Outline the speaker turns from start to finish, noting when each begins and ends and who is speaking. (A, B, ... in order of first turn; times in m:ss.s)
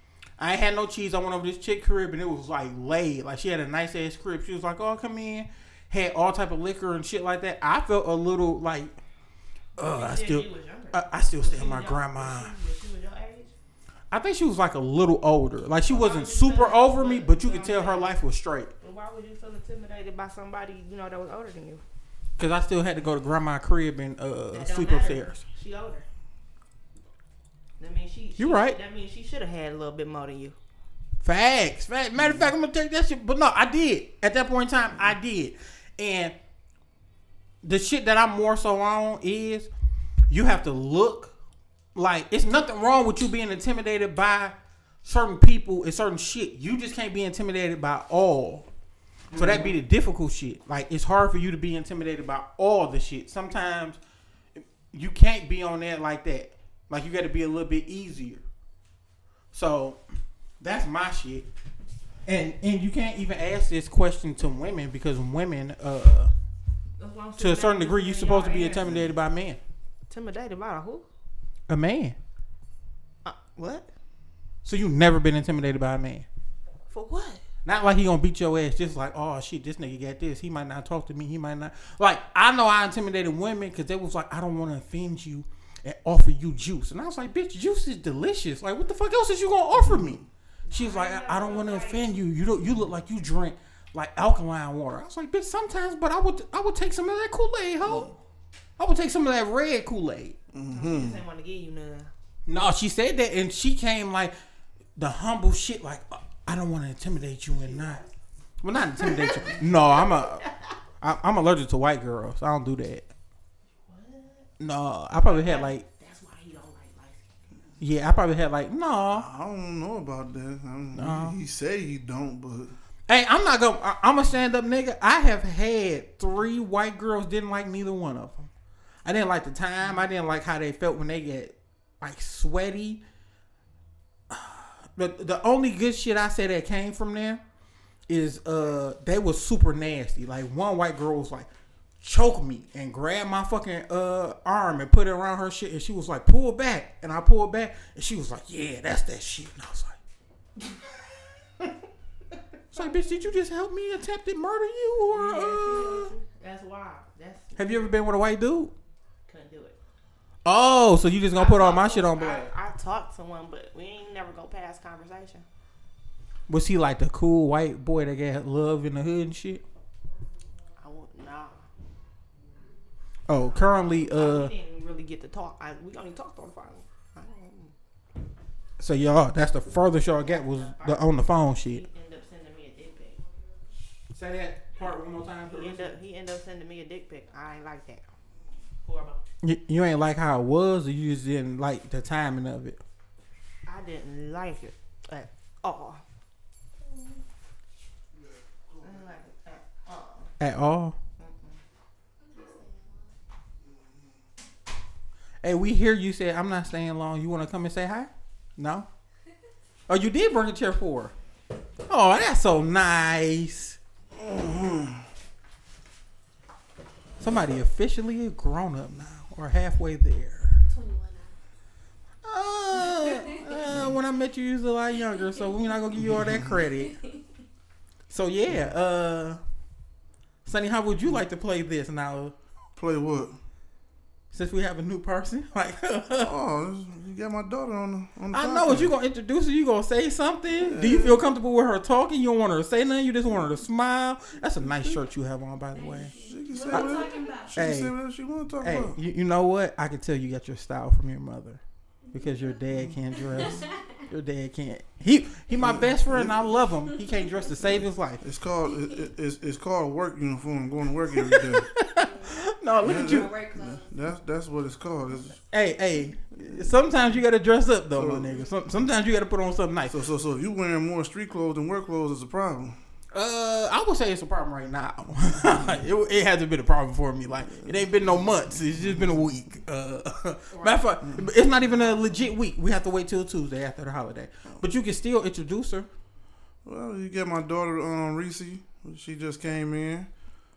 0:00.4-0:09.0 A
0:09.8-0:12.6 A
0:09.8-0:13.5 B
0:14.1-0:18.7 A
0:15.9-0:18.1 B
0:18.8-0:21.8 B
0:22.4-0:25.4 A
0:24.5-0:26.1 B
0:27.8-0:30.6 B
0:28.4-0:28.8 A
0:31.2-0:36.4 A
0:37.6-0:39.7 A
0:40.3-0:41.3 A
0:42.0-0:48.7 A
0:49.3-0:54.0 A
0:54.6-0:58.4 A
0:59.5-1:00.0 A
1:00.6-1:01.5 A
1:02.3-1:06.3 A
1:07.0-1:09.1 B
1:07.4-1:09.6 A
1:10.1-1:11.1 B
1:11.7-1:12.2 A
1:13.2-1:13.9 B
1:14.6-1:16.3 A
1:16.9-1:17.4 B
1:17.6-1:38.2 A
1:29.7-1:30.2 C
1:30.7-1:32.2 B
1:37.8-1:38.1 C
1:38.8-1:40.4 A
1:40.5-1:41.2 C
1:40.7-1:42.1 B
1:42.5-1:44.3 A
1:45.0-1:48.0 A
1:47.6-1:48.1 B
1:48.6-1:50.5 A
1:49.0-1:50.7 B
1:51.0-1:53.1 A
1:53.8-1:54.5 B
1:54.6-1:55.8 A
1:55.2-1:57.4 B
1:57.8-1:59.3 A
1:59.1-2:02.7 C
2:00.9-2:01.4 A
2:03.1-2:08.5 A
2:09.0-2:13.0 A
2:14.3-2:17.4 A
2:18.1-2:21.5 A
2:22.0-2:30.0 A
2:32.7-2:36.1 A
2:32.8-2:33.1 B
2:35.1-2:37.9 B
2:37.6-2:38.7 A
2:39.3-2:39.8 B
2:40.4-2:42.5 A
2:41.4-2:45.5 B
2:46.5-2:49.6 A
2:50.8-2:51.6 B
2:53.3-2:54.5 A
2:53.4-2:57.7 B
2:58.8-3:01.8 A
3:00.2-3:03.2 B
3:04.1-3:06.0 A
3:05.5-3:08.1 B
3:08.8-3:09.2 B
3:09.4-3:12.8 A
3:13.7-3:16.0 B
3:18.2-3:19.1 C
3:18.8-3:20.3 B
3:20.4-3:21.0 A
3:21.2-3:21.6 B
3:22.2-3:23.1 D
3:23.6-3:23.9 C
3:25.4-3:28.9 A
3:29.9-3:31.1 A
3:31.9-3:33.8 A
3:34.2-3:35.0 C
3:37.2-3:40.6 A
3:40.7-3:41.4 D
3:42.2-3:47.0 A
3:46.0-3:46.6 C
3:46.8-3:47.2 D
3:48.1-3:49.4 A
3:50.5-3:52.4 A
3:52.8-3:53.4 C
3:54.3-3:56.3 A
3:56.2-3:58.9 C
3:58.3-4:06.2 A
4:00.6-4:01.2 C
4:04.6-4:05.0 C
4:05.8-4:07.6 D
4:06.2-4:09.0 C
4:06.7-4:07.0 A
4:07.6-4:07.9 A
4:08.6-4:11.6 A
4:12.1-4:12.6 D
4:12.1-4:18.2 A
4:12.7-4:13.4 C
4:13.2-4:13.8 D
4:15.5-4:16.4 C
4:18.2-4:21.7 C
4:18.7-4:19.1 D
4:21.1-4:23.3 A
4:22.0-4:23.9 D
4:22.8-4:25.4 C
4:25.5-4:30.0 A
4:27.9-4:28.4 C
4:29.9-4:32.8 C
4:33.1-4:45.9 A
4:37.5-4:38.2 C
4:40.5-4:40.8 B
4:46.6-4:50.1 C